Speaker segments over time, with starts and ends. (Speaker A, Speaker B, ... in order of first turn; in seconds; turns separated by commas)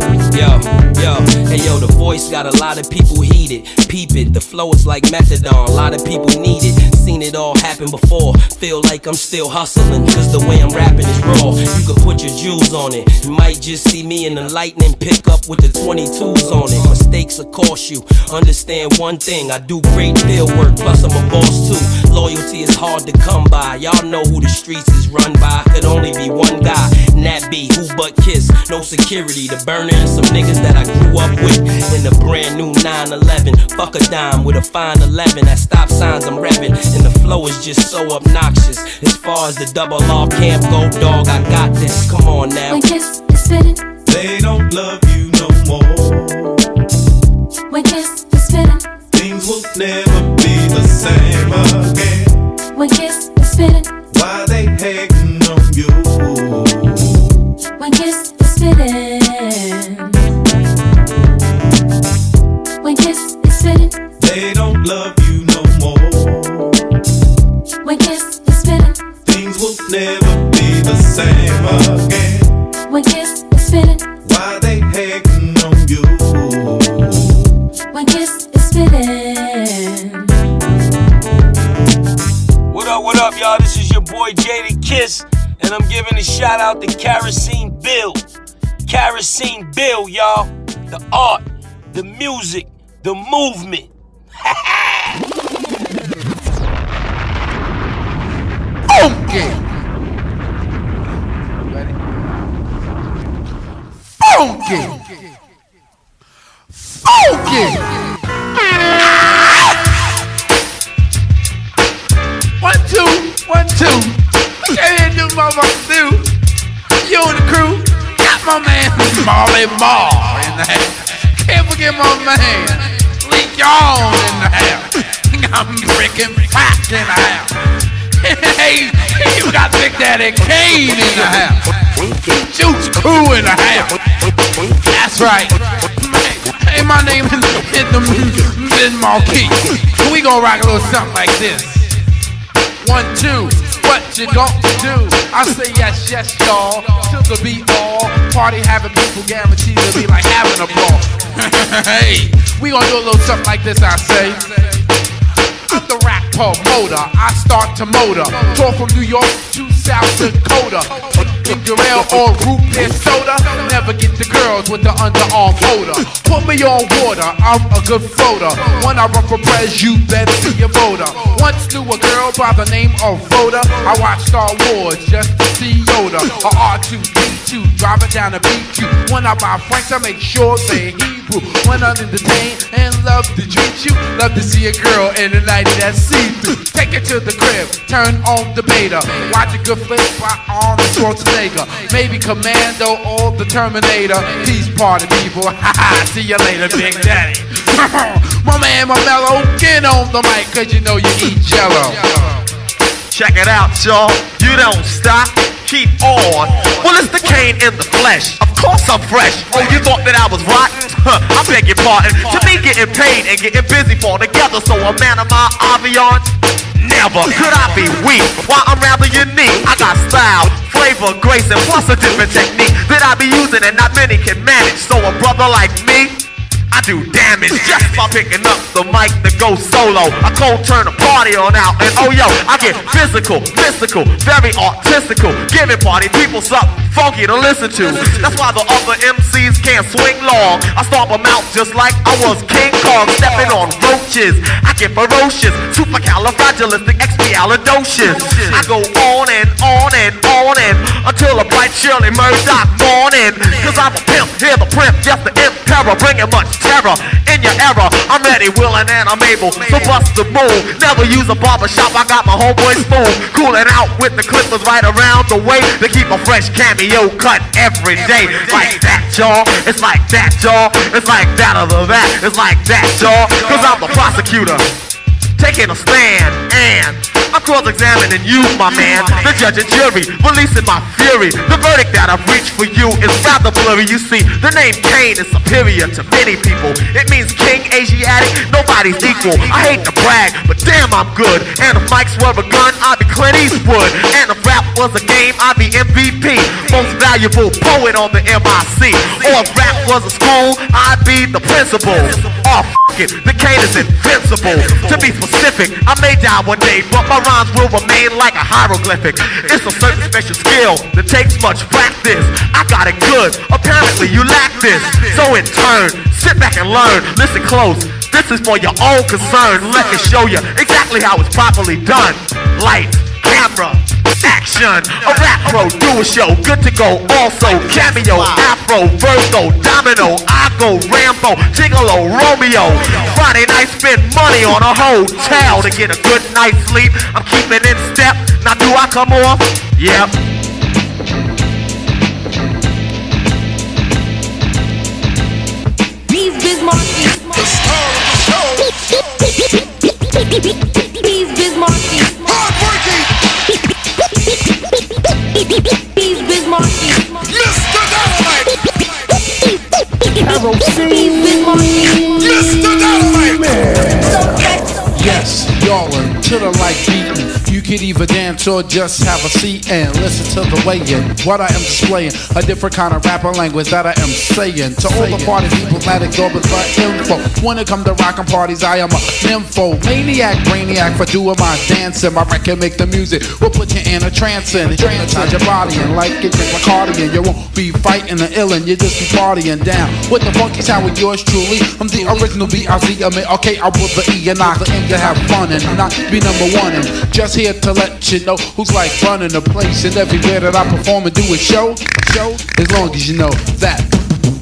Speaker A: 0.3-42.8, Speaker B: 42.7-43.8, Speaker C: 44.0-46.6, Speaker B: 47.7-48.9, Speaker C: 49.1-52.3, Speaker B: 52.7-53.9, Speaker C: 54.1-57.2, Speaker B: 57.8-60.2, Speaker B: 62.8-64.0, Speaker C: 64.2-66.8, Speaker B: 67.8-69.0, Speaker C: 69.2-72.5, Speaker B: 72.9-74.1, Speaker C: 74.2-77.3, Speaker B: 77.9-80.3, Speaker D: 82.7-88.2, Speaker D: 88.9-93.9, Speaker E: 98.9-99.5, Speaker E: 104.2-105.0, Speaker E: 107.1-107.8, Speaker E: 112.6-114.1, Speaker E: 114.7-116.2, Speaker E: 117.0-127.5, Speaker E: 128.2-131.6, Speaker E: 132.5-133.9, Speaker E: 134.9-141.9, Speaker E: 142.8-154.8, Speaker E: 155.7-202.3, Speaker F: 203.1-216.3, Speaker F: 216.8-226.2, Speaker F: 226.7-274.7, Speaker F: 275.4-340.1, Speaker E: 365.0-403.9